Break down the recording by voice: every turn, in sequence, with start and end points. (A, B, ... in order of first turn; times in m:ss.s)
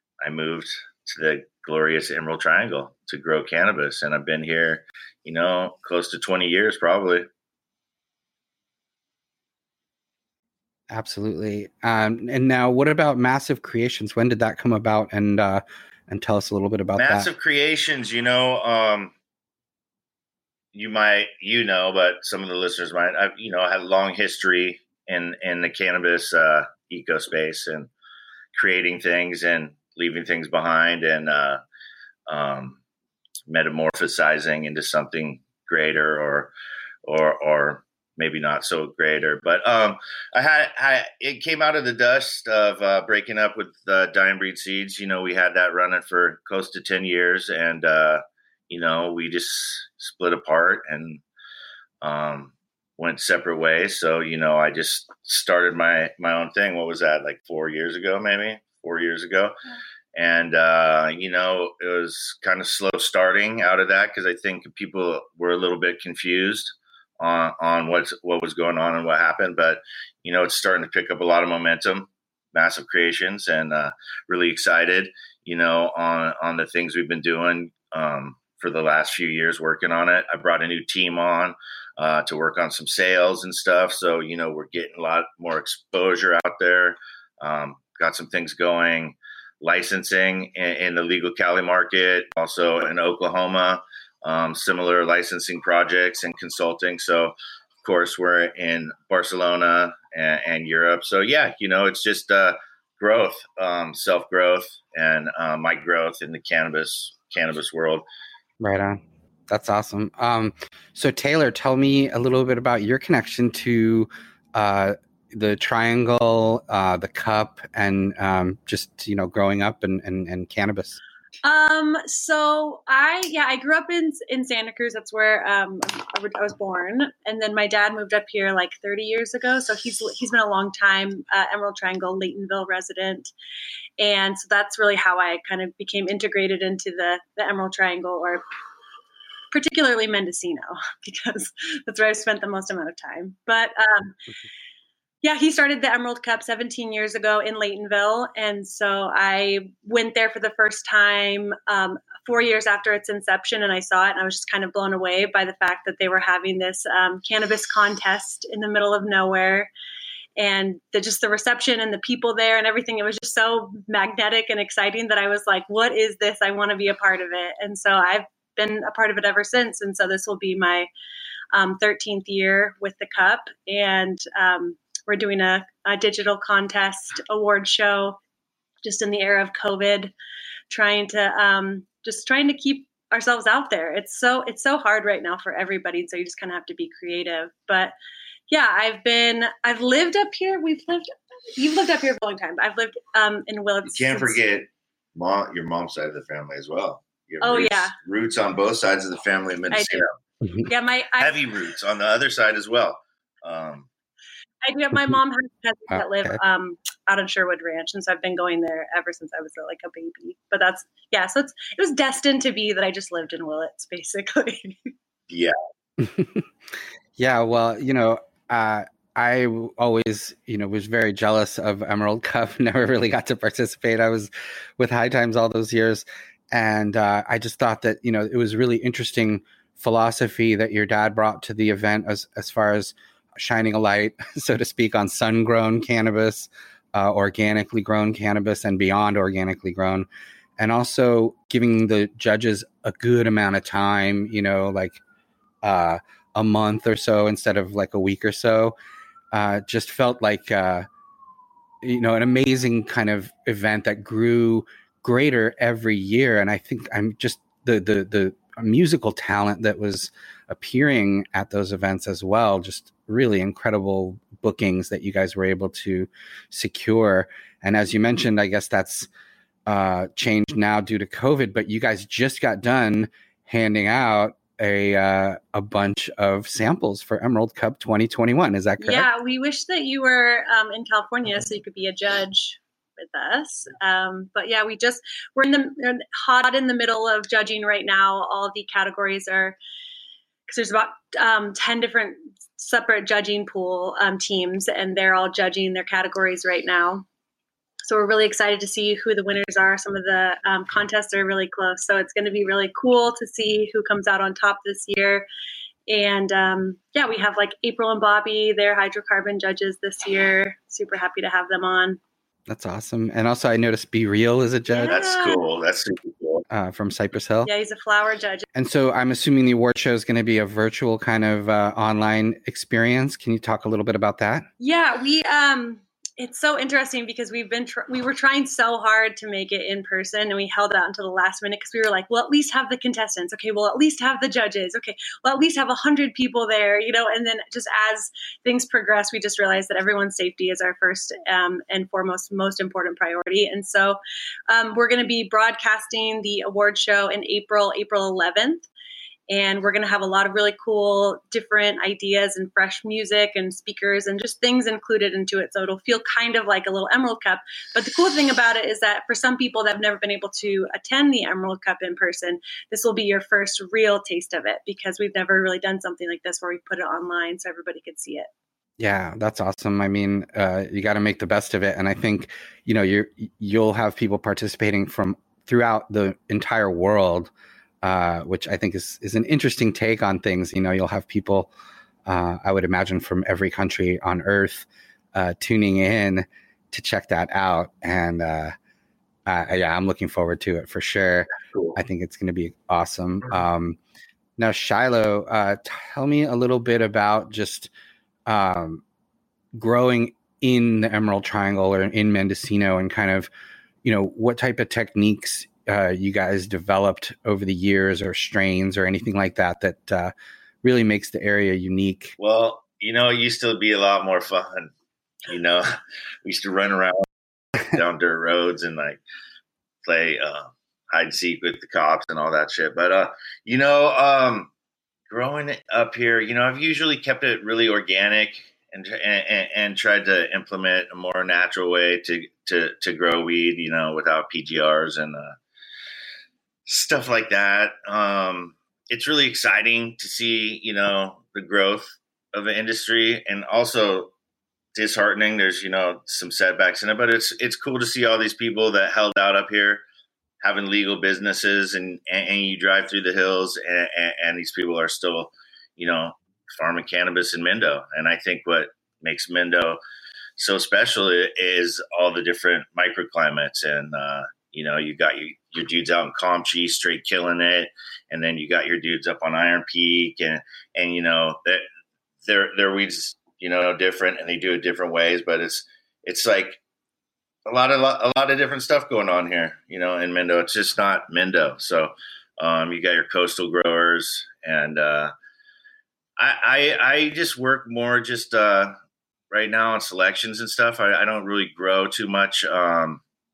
0:00.2-0:07.3 A
0:10.9-0:17.3 B
0:17.0-0:19.1 A
0:20.7-0:27.9 A
0:28.6-0:31.6 A
0:32.3-0:32.8 A
0:33.5-0:36.5 A
0:37.1-0:51.2 A
0:52.0-0:59.6 A
1:00.2-1:48.0 A
1:48.6-2:01.0 B
2:01.4-2:13.3 C
2:14.0-2:18.4 C
2:19.5-2:24.2 C
2:25.2-2:39.7 C
2:40.4-2:50.9 C
2:51.5-2:58.2 C
2:58.8-3:00.1 C
3:00.7-3:07.9 C
3:08.5-3:14.4 C
3:13.9-3:20.1 A
3:17.4-3:17.9 C
3:19.7-3:20.0 C
3:20.7-3:21.5 C
3:21.2-3:23.9 A
3:24.6-3:34.9 C
3:25.9-3:26.4 B
3:36.0-3:36.4 B
3:37.2-4:00.1 B
4:00.6-4:05.0 B
4:05.6-4:08.8 B
4:09.3-4:10.9 B
4:11.8-4:29.1 B
4:29.7-4:39.1 B
4:38.8-4:49.6 C
4:50.5-4:57.1 C
4:57.8-5:05.3 C
5:05.9-5:12.0 C
5:12.5-5:14.9 B
5:14.7-5:15.4 C
5:14.9-5:16.4 A
5:16.5-5:17.5 B
5:17.4-5:18.5 C
5:18.6-5:24.5 B
5:24.6-5:48.7 C
5:49.3-6:08.3 C
6:08.8-6:17.3 B
6:17.8-6:21.5 B
6:22.1-6:28.5 B
6:29.3-6:33.8 B
6:34.4-6:37.7 B
6:38.3-6:38.8 B
6:39.5-6:43.3 B
6:43.8-6:52.2 B
6:52.2-6:54.7 A
6:55.3-6:55.7 A
6:56.2-6:57.0 A
6:57.7-6:59.0 A
6:59.8-7:04.5 A
7:05.1-7:15.4 A
7:16.7-7:24.1 A
7:24.8-7:29.8 A
7:30.4-7:39.8 A
7:40.4-7:51.6 A
7:52.2-7:56.6 A
7:57.5-8:05.1 A
8:06.2-8:08.8 A
8:09.3-8:13.0 A